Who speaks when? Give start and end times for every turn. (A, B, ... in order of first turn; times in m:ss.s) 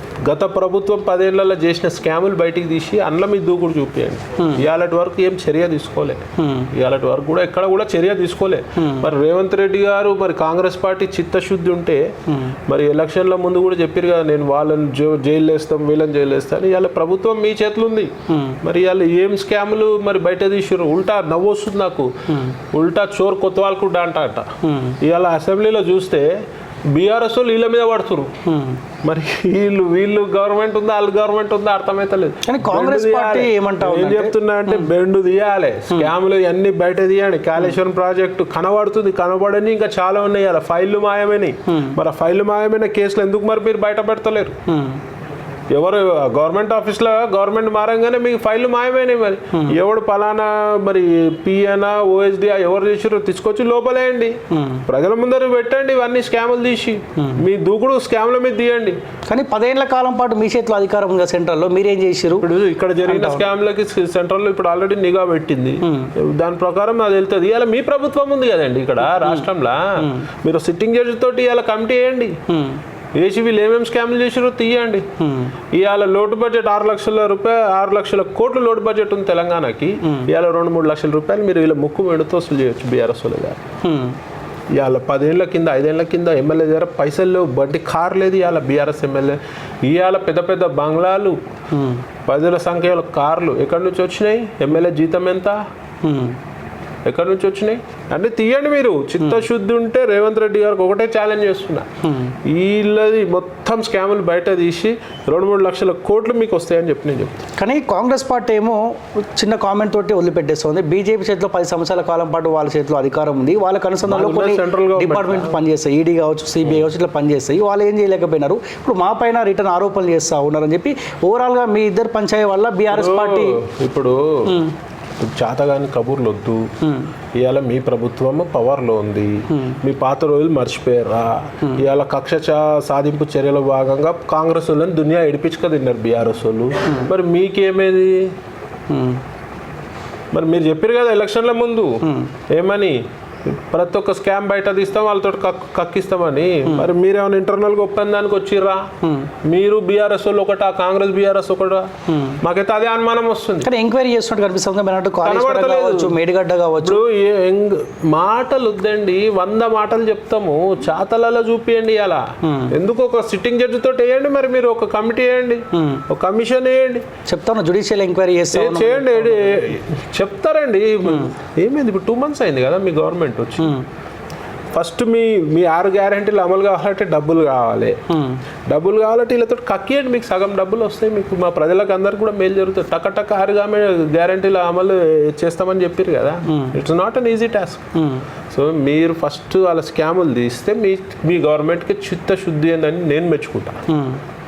0:00.3-0:12.1 A
0:04.4-0:04.6 B
0:06.4-0:06.7 B
0:08.8-0:09.1 B
0:12.3-0:12.6 B
0:12.7-0:22.1 A
0:18.3-0:18.6 B
0:22.3-0:22.6 B
0:22.7-0:26.4 A
0:24.6-0:25.0 B
0:26.9-0:28.3 A
0:28.4-0:28.8 B
0:29.0-0:44.6 A
0:32.5-0:34.9 B
0:41.7-0:42.0 B
0:44.7-0:45.0 B
0:45.7-0:59.0 A
0:54.5-0:54.8 B
0:57.2-0:57.4 B
0:59.3-1:02.5 B
1:02.4-1:12.4 A
1:03.0-1:03.5 B
1:05.8-1:06.1 B
1:09.2-1:09.4 B
1:10.0-1:10.3 B
1:12.5-1:12.8 B
1:13.2-1:15.1 A
1:15.2-1:15.6 B
1:15.7-1:23.6 A
1:23.8-1:24.2 B
1:24.7-1:31.4 A
1:31.7-1:32.0 B
1:32.3-1:35.6 A
1:36.0-1:36.4 B
1:37.1-1:41.9 A
1:42.0-1:42.4 B
1:42.4-1:47.5 A
1:47.6-2:03.6 B
1:54.0-1:55.6 A
2:02.9-2:04.6 A
2:04.5-2:04.7 B
2:05.2-2:06.7 A
2:06.8-2:07.1 B
2:07.4-2:18.3 A
2:09.5-2:09.8 B
2:18.9-2:19.2 B
2:20.3-2:28.9 A
2:22.0-2:22.3 B
2:29.0-2:29.3 B
2:29.4-2:31.9 A
2:32.1-2:32.4 B
2:32.4-2:33.7 A
2:33.6-2:37.0 B
2:35.2-2:36.2 A
2:36.8-2:47.0 A
2:42.4-2:42.7 B
2:45.7-2:46.0 B
2:47.3-2:49.8 B
2:48.5-2:53.8 A
2:51.1-2:51.3 B
2:53.6-2:53.8 B
2:54.7-2:58.0 A
2:58.1-2:58.4 B
2:58.7-3:07.9 A
3:06.5-3:06.8 B
3:08.0-3:08.2 B
3:08.5-3:13.8 A
3:13.9-3:14.2 B